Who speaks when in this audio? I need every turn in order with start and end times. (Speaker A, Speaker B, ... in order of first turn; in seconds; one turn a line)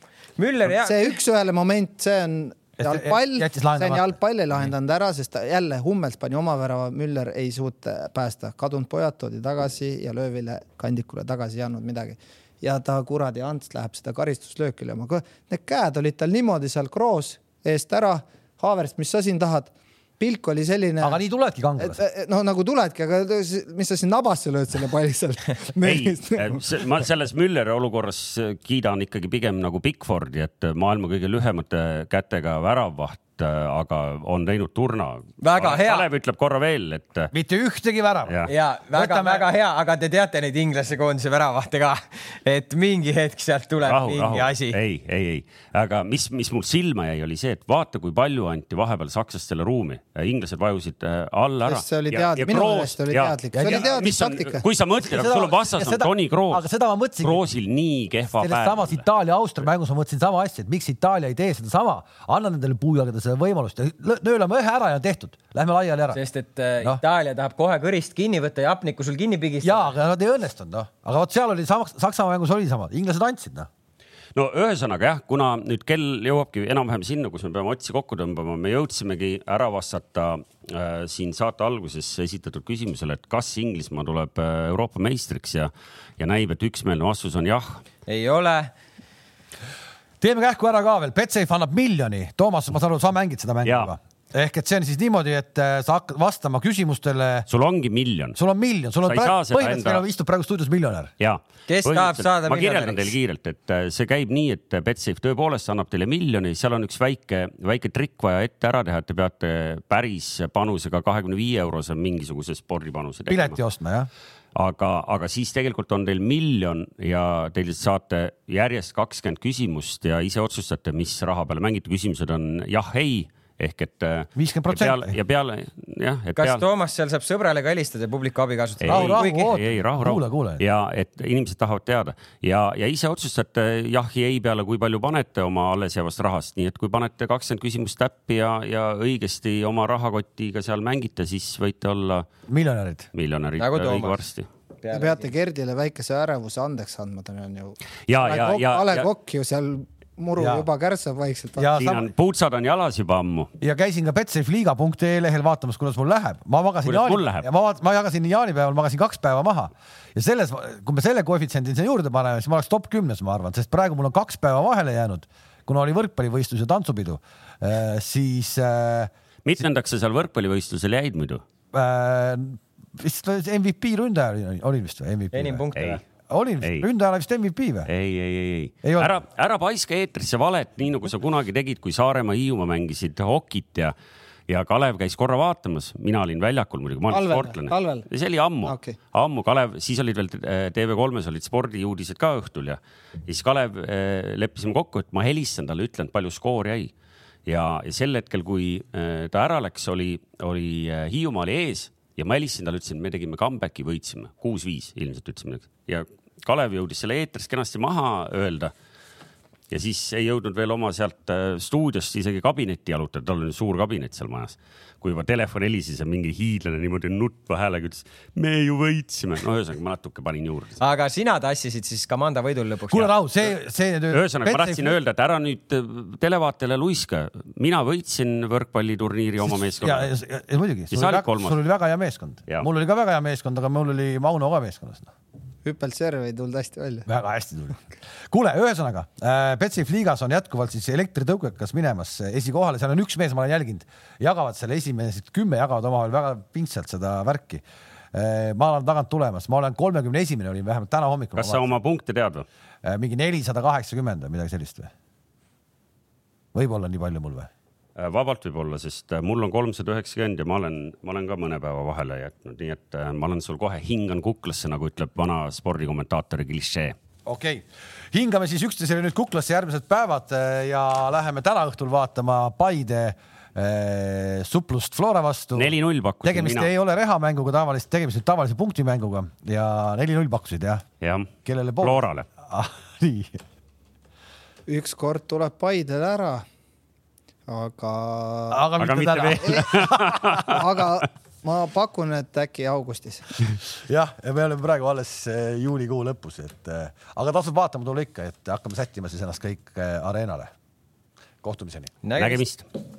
Speaker A: 0.4-1.2
Speaker B: 0.7-21.2
Speaker C: 2.8-4.2
Speaker C: 21.0-22.0
Speaker B: 21.8-26.7
Speaker D: 25.8-37.3
Speaker A: 35.4-36.1
Speaker C: 37.3-38.4
Speaker D: 38.3-38.5
Speaker A: 38.5-44.8
Speaker C: 38.9-39.5
Speaker D: 43.8-56.7
Speaker B: 51.6-54.6
Speaker C: 53.5-54.0
Speaker C: 55.0-57.4
Speaker D: 57.2-59.0
Speaker C: 58.4-66.2
Speaker A: 66.1-69.9
Speaker C: 69.6-73.7
Speaker D: 74.3-87.8
Speaker A: 88.1-88.7
Speaker C: 90.2-97.5
Speaker D: 93.6-93.9
Speaker D: 97.5-98.4
Speaker C: 98.3-101.1
Speaker D: 99.0-100.0
Speaker D: 101.2-113.6
Speaker A: 101.7-103.1
Speaker C: 113.3-114.1
Speaker D: 114.5-126.6
Speaker C: 124.3-125.2
Speaker A: 126.4-129.5
Speaker D: 128.8-142.2
Speaker C: 128.9-130.6
Speaker C: 142.5-143.1
Speaker D: 143.1-144.5
Speaker A: 143.6-144.2
Speaker A: 144.8-145.3
Speaker B: 144.9-151.7
Speaker D: 148.1-149.1
Speaker C: 150.3-150.7
Speaker C: 151.6-152.1
Speaker D: 151.8-153.5
Speaker C: 153.6-169.1
Speaker D: 156.8-157.5
Speaker D: 169.4-171.4
Speaker C: 171.7-175.6
Speaker A: 175.3-176.0
Speaker C: 176.2-177.9
Speaker D: 177.9-183.9
Speaker C: 178.8-179.1
Speaker D: 184.5-196.9
Speaker B: 187.1-188.1
Speaker B: 188.6-188.9
Speaker D: 197.4-208.7
Speaker D: 209.7-220.8
Speaker A: 220.8-223.1
Speaker C: 222.9-225.0
Speaker D: 224.1-230.1
Speaker C: 229.8-235.1
Speaker D: 230.9-231.6
Speaker B: 235.6-237.1
Speaker C: 237.1-251.7
Speaker D: 251.3-252.4
Speaker C: 252.8-254.9
Speaker C: 256.5-257.5
Speaker D: 257.9-266.9
Speaker C: 267.2-280.8
Speaker D: 275.6-276.7
Speaker D: 281.0-282.2
Speaker C: 281.4-283.4
Speaker B: 284.7-286.4
Speaker B: 287.5-288.7
Speaker C: 288.5-290.6
Speaker D: 288.8-290.9
Speaker B: 290.4-293.5
Speaker C: 293.4-300.5
Speaker C: 301.4-301.9
Speaker A: 302.0-302.4
Speaker D: 302.2-302.6